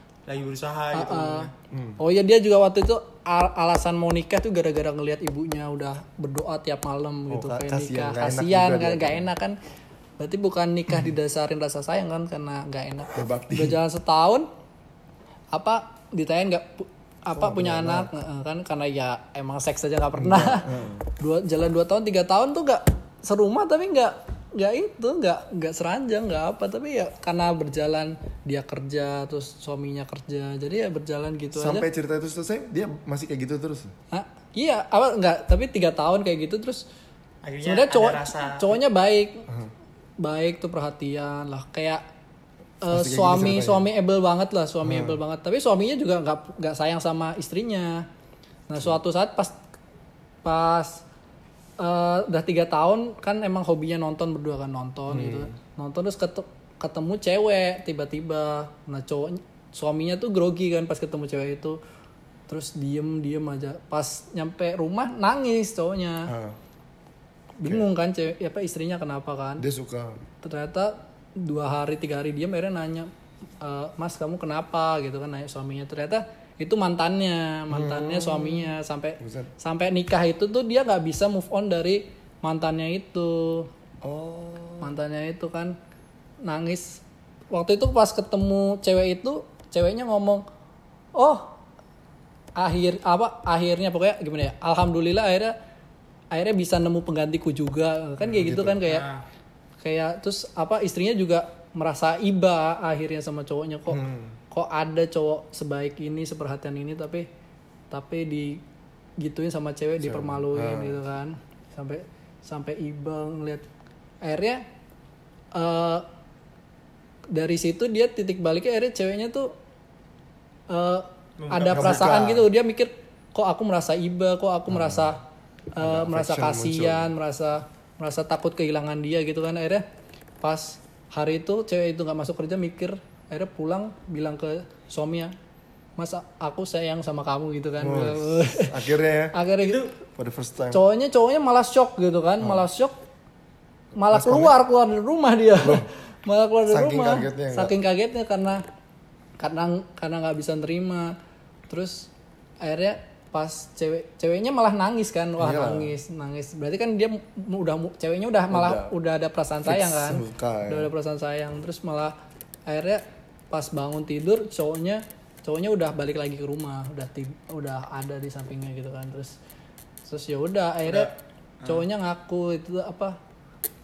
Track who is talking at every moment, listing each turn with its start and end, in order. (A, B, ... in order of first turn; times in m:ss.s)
0:00.3-0:01.5 A
0:00.9-0:09.6 B
0:01.7-0:02.0 C
0:07.3-0:09.3 C
0:10.2-0:14.5 B
0:13.1-0:13.8 C
0:15.5-0:31.9 B
0:17.3-0:18.1 C
0:20.2-0:21.0 C
0:31.5-0:33.9 C
0:34.1-0:36.8 B
0:37.4-0:38.7 A
0:37.6-0:39.4 B
0:40.2-0:42.0 B
0:42.8-0:48.1 B
0:42.9-0:43.9 C
0:44.8-0:45.2 C
0:48.7-0:49.6 B
0:50.4-0:51.0 B
0:51.8-1:01.8 B
0:55.1-0:55.6 C
1:02.5-1:06.3 B
1:06.3-1:06.6 C
1:07.6-1:09.6 B
1:09.6-1:10.2 C
1:10.4-1:23.7 B
1:17.7-1:19.5 C
1:24.0-1:25.0 C
1:24.8-1:25.8 B
1:26.4-1:30.4 B
1:31.2-1:31.5 B
1:32.6-1:35.5 B
1:36.3-1:39.0 B
1:38.2-1:38.8 C
1:38.8-1:39.2 A
1:39.8-1:47.3 B
1:43.9-1:44.4 C
1:47.9-1:48.6 B
1:49.2-1:53.6 B
1:50.0-1:51.0 C
1:54.2-1:54.6 B
1:55.5-1:56.0 B
1:57.3-1:59.5 B
2:00.7-2:05.2 B
2:01.4-2:02.2 A
2:01.7-2:02.5 C
2:04.7-2:05.1 C
2:05.7-2:09.8 B
2:05.8-2:07.1 C
2:10.4-2:15.3 B
2:16.0-2:19.8 B
2:17.8-2:19.4 C
2:19.6-2:19.9 A
2:20.2-2:20.8 C
2:20.7-2:23.0 B
2:24.0-2:28.6 B
2:24.1-2:24.5 C
2:25.6-2:25.8 C
2:26.7-2:27.7 C
2:29.4-2:31.2 B
2:31.7-2:32.1 B
2:32.6-2:42.1 B
2:35.4-2:35.9 C
2:38.5-2:38.9 C
2:39.6-2:40.9 C
2:42.7-2:49.3 B
2:50.0-2:51.1 B
2:50.8-2:51.8 A
2:51.6-2:53.2 B